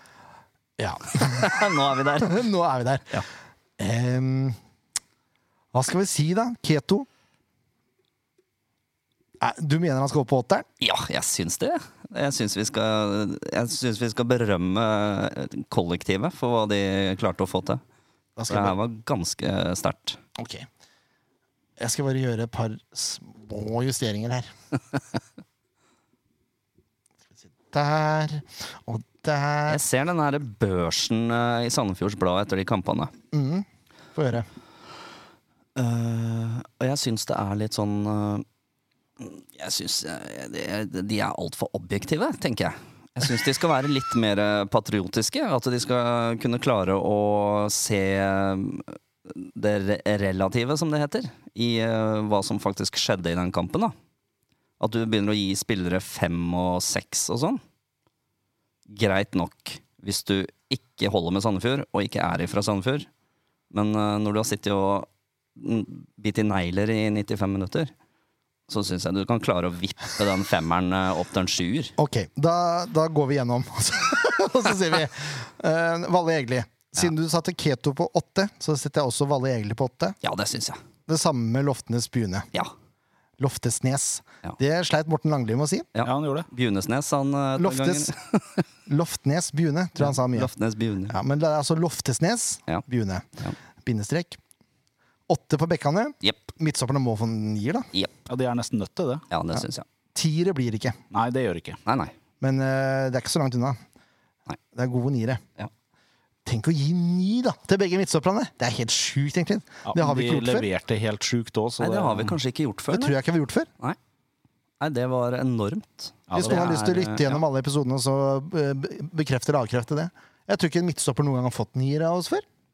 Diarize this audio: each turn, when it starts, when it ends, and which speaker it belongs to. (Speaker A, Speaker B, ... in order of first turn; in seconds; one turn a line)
Speaker A: 0.8-1.5
Speaker B: 1.1-2.5
Speaker A: 2.2-3.2
Speaker A: 3.8-4.6
Speaker A: 5.7-7.1
Speaker A: 9.4-10.7
Speaker B: 10.8-17.8
Speaker A: 18.4-18.7
Speaker B: 18.5-20.2
Speaker A: 20.4-20.7
Speaker A: 21.8-24.5
Speaker A: 27.7-29.8
Speaker B: 29.7-33.1
Speaker A: 33.3-34.5
Speaker B: 35.8-38.5
Speaker B: 39.2-53.9
Speaker B: 54.8-57.6
Speaker B: 58.9-63.1
Speaker B: 63.7-67.9
Speaker B: 68.7-71.9
Speaker A: 72.0-80.2
Speaker B: 80.2-80.8
Speaker A: 81.1-82.5
Speaker A: 83.4-85.9
Speaker B: 85.9-88.6
Speaker C: 86.0-86.5
Speaker A: 87.6-88.1
Speaker A: 88.9-90.5
Speaker B: 90.0-91.2
Speaker A: 91.1-93.3
Speaker A: 93.8-94.4
Speaker A: 95.3-97.9
Speaker C: 98.3-99.2
Speaker B: 99.3-99.8
Speaker A: 100.1-101.0
Speaker C: 101.1-101.8
Speaker B: 101.8-102.1
Speaker A: 102.4-103.8
Speaker A: 104.7-105.4
Speaker A: 106.5-110.7
Speaker C: 109.8-112.4
Speaker B: 111.8-113.2
Speaker A: 112.9-113.7
Speaker B: 114.8-117.4
Speaker C: 116.3-116.7
Speaker A: 116.3-122.4